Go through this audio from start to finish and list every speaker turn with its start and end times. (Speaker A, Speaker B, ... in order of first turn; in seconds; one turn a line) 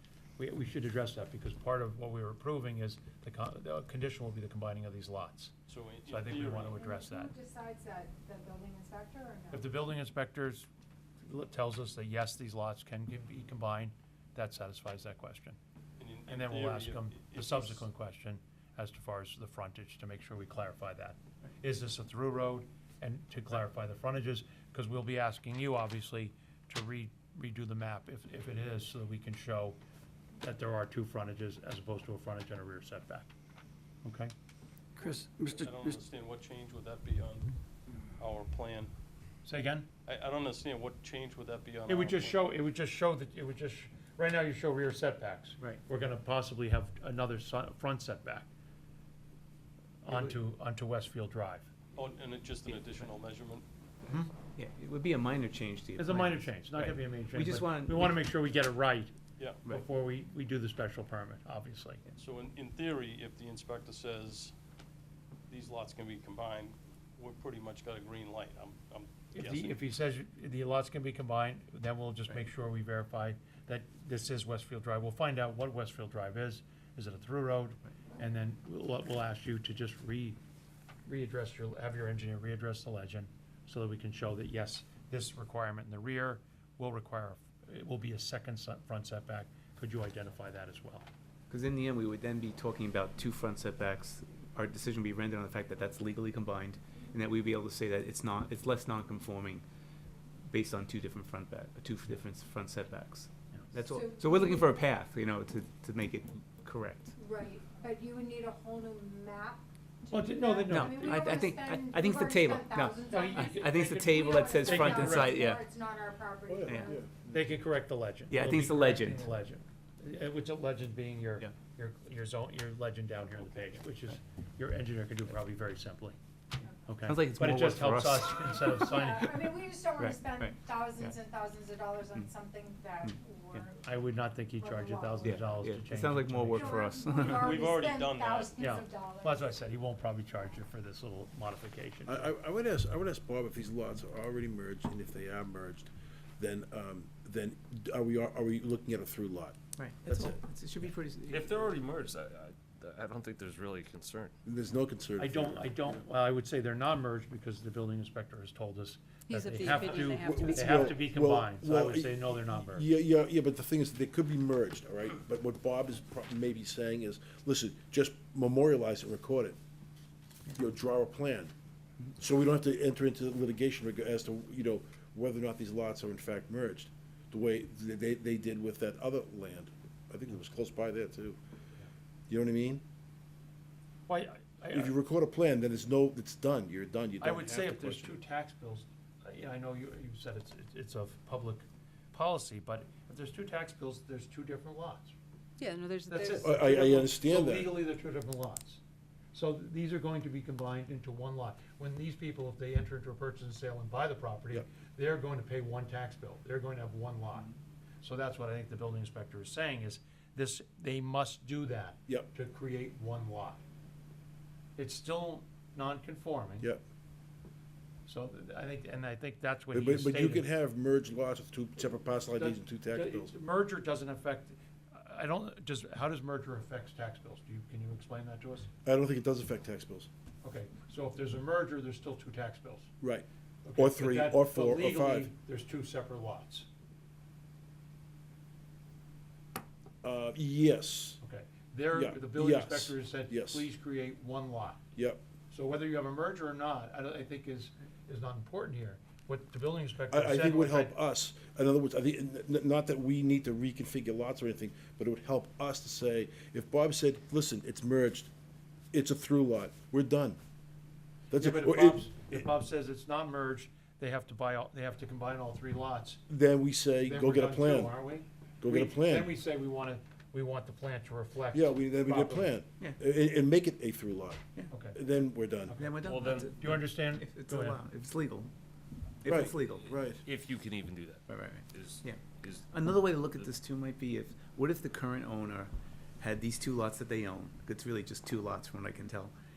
Speaker A: 0.4-5.6
Speaker B: 5.7-6.8
Speaker A: 6.1-7.3
Speaker C: 6.8-9.8
Speaker A: 9.5-10.7
Speaker A: 11.3-15.6
Speaker B: 16.0-17.9
Speaker A: 16.3-29.8
Speaker A: 30.4-33.3
Speaker A: 34.0-34.3
Speaker B: 35.0-37.6
Speaker B: 38.2-38.9
Speaker A: 39.5-39.9
Speaker B: 40.0-42.5
Speaker A: 41.9-48.5
Speaker A: 50.0-51.7
Speaker D: 50.1-50.4
Speaker B: 52.0-53.7
Speaker D: 52.7-53.1
Speaker D: 54.1-58.3
Speaker A: 56.0-59.1
Speaker B: 59.4-59.6
Speaker A: 59.7-62.0
Speaker B: 62.2-64.5
Speaker B: 65.5-69.8
Speaker A: 69.3-80.4
Speaker A: 81.1-91.1
Speaker D: 91.5-99.6
Speaker D: 100.5-107.1
Speaker C: 103.9-104.7
Speaker C: 107.2-117.0
Speaker A: 110.1-111.4
Speaker D: 110.7-115.6
Speaker A: 113.1-115.4
Speaker E: 116.5-117.3
Speaker D: 116.7-116.9
Speaker A: 117.3-126.2
Speaker D: 118.3-119.2
Speaker A: 126.8-129.3
Speaker D: 127.1-129.3
Speaker C: 128.4-135.4
Speaker D: 130.0-131.1
Speaker D: 133.0-133.7
Speaker A: 133.8-136.9
Speaker D: 135.2-137.6
Speaker C: 136.5-139.6
Speaker B: 137.3-138.6
Speaker A: 138.6-142.3
Speaker E: 142.1-149.6
Speaker D: 149.8-151.6
Speaker A: 150.1-150.3
Speaker F: 151.3-154.4
Speaker E: 154.4-155.8
Speaker A: 155.2-162.9
Speaker G: 159.3-160.6
Speaker E: 160.1-169.6
Speaker E: 170.5-171.5
Speaker E: 172.2-181.4
Speaker E: 182.3-182.8
Speaker A: 184.1-184.9
Speaker E: 184.7-188.2
Speaker A: 187.2-195.2
Speaker G: 195.7-196.4
Speaker A: 196.1-198.8
Speaker E: 196.4-197.8
Speaker A: 199.3-207.5
Speaker A: 208.0-213.6
Speaker A: 214.8-216.7
Speaker A: 218.1-220.5
Speaker E: 219.7-223.3
Speaker A: 222.4-228.7
Speaker E: 228.8-230.1
Speaker A: 230.4-232.9
Speaker E: 233.0-233.3
Speaker A: 233.7-236.7
Speaker E: 233.8-235.3
Speaker E: 240.0-241.2
Speaker A: 241.2-244.8
Speaker E: 241.9-243.7
Speaker E: 245.0-245.2
Speaker A: 245.5-250.9
Speaker E: 250.1-258.3
Speaker E: 258.9-260.4
Speaker E: 261.3-262.5
Speaker A: 261.4-266.2
Speaker E: 266.3-268.0
Speaker A: 267.0-272.5
Speaker E: 268.6-269.3
Speaker E: 271.5-274.4
Speaker A: 274.7-275.0
Speaker E: 274.9-275.8
Speaker A: 275.7-277.8
Speaker D: 275.8-278.5
Speaker D: 279.2-280.0
Speaker E: 279.2-280.2
Speaker F: 280.2-283.5
Speaker D: 281.3-289.3